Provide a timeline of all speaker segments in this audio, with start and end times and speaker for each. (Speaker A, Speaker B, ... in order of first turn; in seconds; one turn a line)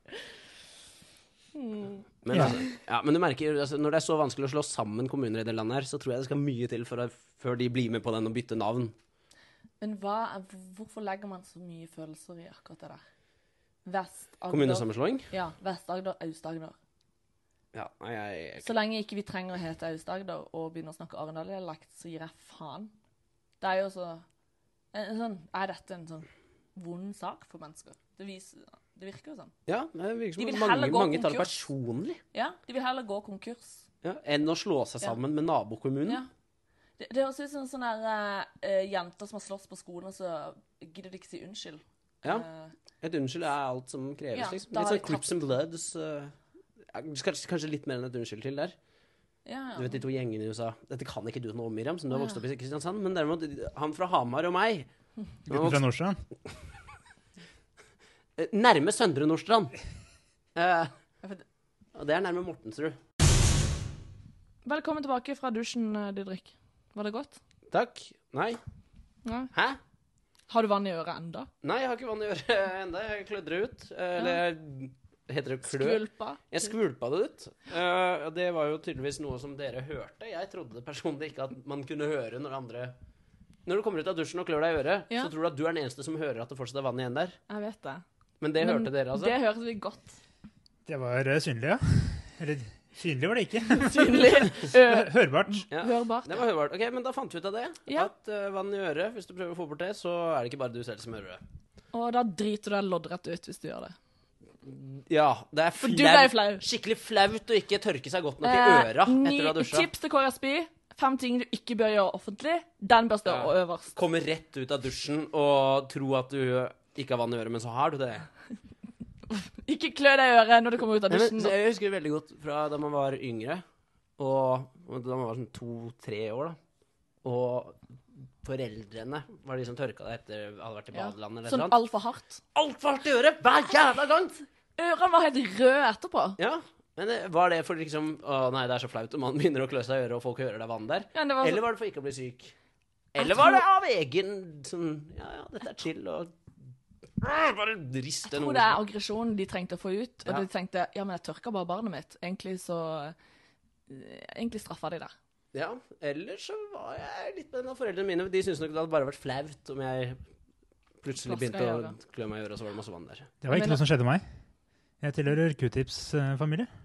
Speaker A: 1.5-2.6
Speaker B: 2.2-8.9
Speaker C: 2.3-2.6
Speaker A: 9.8-13.0
Speaker A: 13.8-16.7
Speaker B: 14.5-15.3
Speaker B: 17.7-18.7
Speaker A: 18.6-22.9
Speaker A: 23.6-24.2
Speaker A: 24.9-29.5
Speaker B: 29.7-32.2
Speaker A: 30.4-31.6
Speaker A: 32.3-33.8
Speaker B: 34.0-36.2
Speaker A: 37.0-42.7
Speaker B: 43.0-46.3
Speaker A: 44.3-45.3
Speaker B: 46.9-48.7
Speaker A: 49.4-50.0
Speaker B: 49.8-54.9
Speaker A: 52.1-52.4
Speaker C: 55.5-56.2
Speaker B: 55.5-55.8
Speaker B: 58.4-59.8
Speaker B: 60.5-60.9
Speaker B: 61.9-63.0
Speaker A: 64.6-67.4
Speaker B: 67.7-68.6
Speaker A: 69.2-69.5
Speaker B: 69.5-69.8
Speaker A: 70.5-71.5
Speaker B: 71.6-82.9
Speaker A: 75.7-76.4
Speaker B: 83.7-87.4
Speaker A: 87.5-88.0
Speaker B: 88.4-89.3
Speaker A: 88.6-90.2
Speaker C: 90.8-95.7
Speaker A: 93.7-96.4
Speaker B: 95.7-101.4
Speaker A: 101.9-103.9
Speaker B: 104.6-109.9
Speaker A: 105.8-106.6
Speaker A: 108.4-113.9
Speaker B: 113.2-118.3
Speaker A: 119.3-121.5
Speaker B: 121.1-123.6
Speaker B: 124.2-126.6
Speaker B: 127.2-127.8
Speaker B: 128.4-131.7
Speaker A: 130.9-132.4
Speaker B: 132.5-134.4
Speaker A: 134.8-136.4
Speaker B: 136.4-142.5
Speaker A: 141.1-141.6
Speaker B: 143.1-146.3
Speaker A: 143.2-143.6
Speaker B: 147.2-148.8
Speaker A: 148.2-153.1
Speaker A: 153.9-155.1
Speaker B: 155.5-160.2
Speaker B: 161.0-163.3
Speaker A: 161.2-161.9
Speaker C: 163.4-164.2
Speaker A: 163.5-163.8
Speaker C: 165.0-166.7